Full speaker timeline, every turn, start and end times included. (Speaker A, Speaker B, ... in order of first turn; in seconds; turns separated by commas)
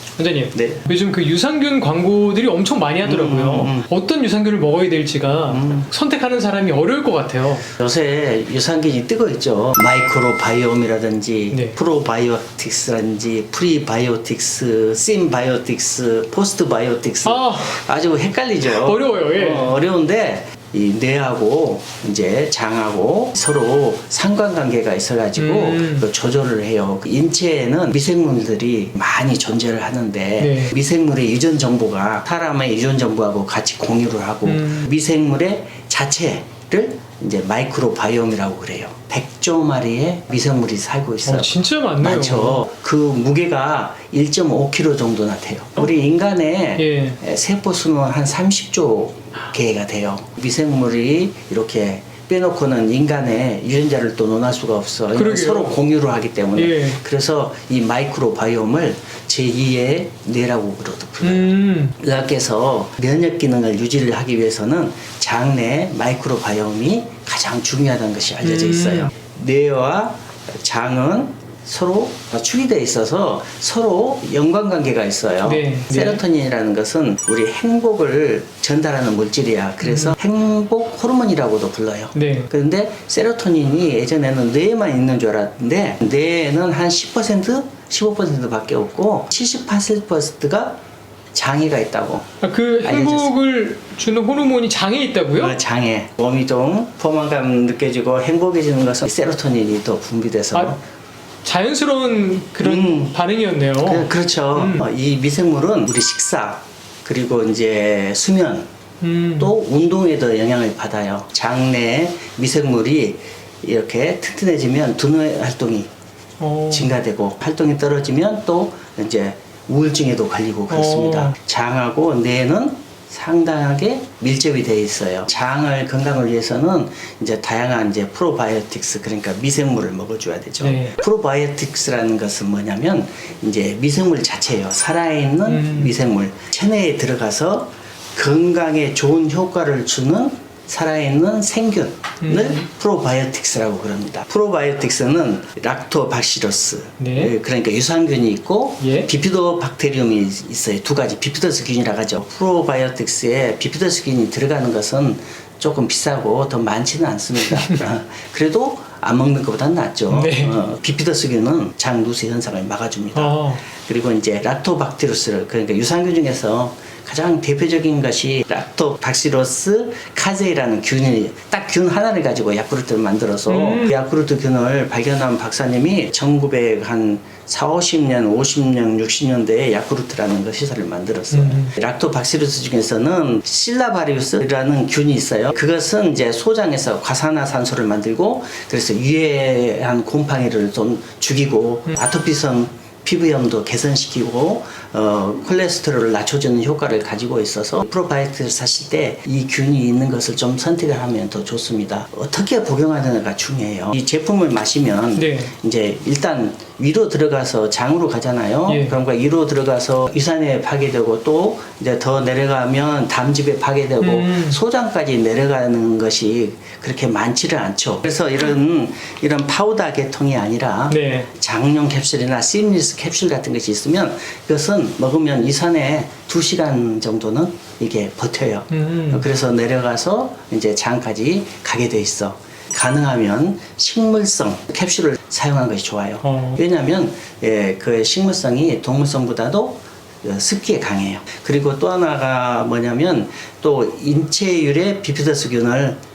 Speaker A: 0.2-7.7, Speaker B: 0.5-0.8, Speaker B: 3.0-3.9, Speaker B: 5.5-5.9, Speaker B: 7.7-90.8, Speaker A: 17.2-17.8, Speaker A: 18.7-19.8, Speaker A: 25.4-26.1, Speaker A: 30.4-30.8, Speaker A: 34.5-34.9, Speaker A: 41.2-42.6, Speaker A: 46.8-47.2, Speaker A: 55.1-55.8, Speaker A: 56.6-57.0, Speaker A: 61.2-62.0, Speaker A: 68.4-69.1, Speaker A: 75.4-76.2, Speaker A: 79.8-80.2, Speaker A: 82.1-82.5, Speaker B: 91.3-92.3, Speaker A: 92.4-95.6, Speaker B: 92.8-93.3, Speaker B: 95.3-100.8, Speaker A: 101.4-104.9, Speaker B: 102.6-103.2, Speaker B: 103.8-108.7, Speaker A: 109.0-109.5, Speaker B: 109.4-115.9, Speaker A: 116.4-116.9, Speaker B: 116.7-246.0, Speaker A: 120.7-121.3, Speaker A: 130.6-130.9, Speaker A: 135.5-135.9, Speaker A: 142.2-142.6, Speaker A: 147.0-147.3, Speaker A: 148.8-149.1, Speaker A: 160.1-160.6, Speaker A: 163.2-163.6, Speaker A: 173.5-174.0, Speaker A: 181.3-181.7, Speaker A: 205.2-205.5, Speaker A: 208.7-209.0, Speaker A: 214.0-214.6, Speaker A: 220.9-221.3, Speaker A: 228.7-229.2, Speaker A: 236.2-236.6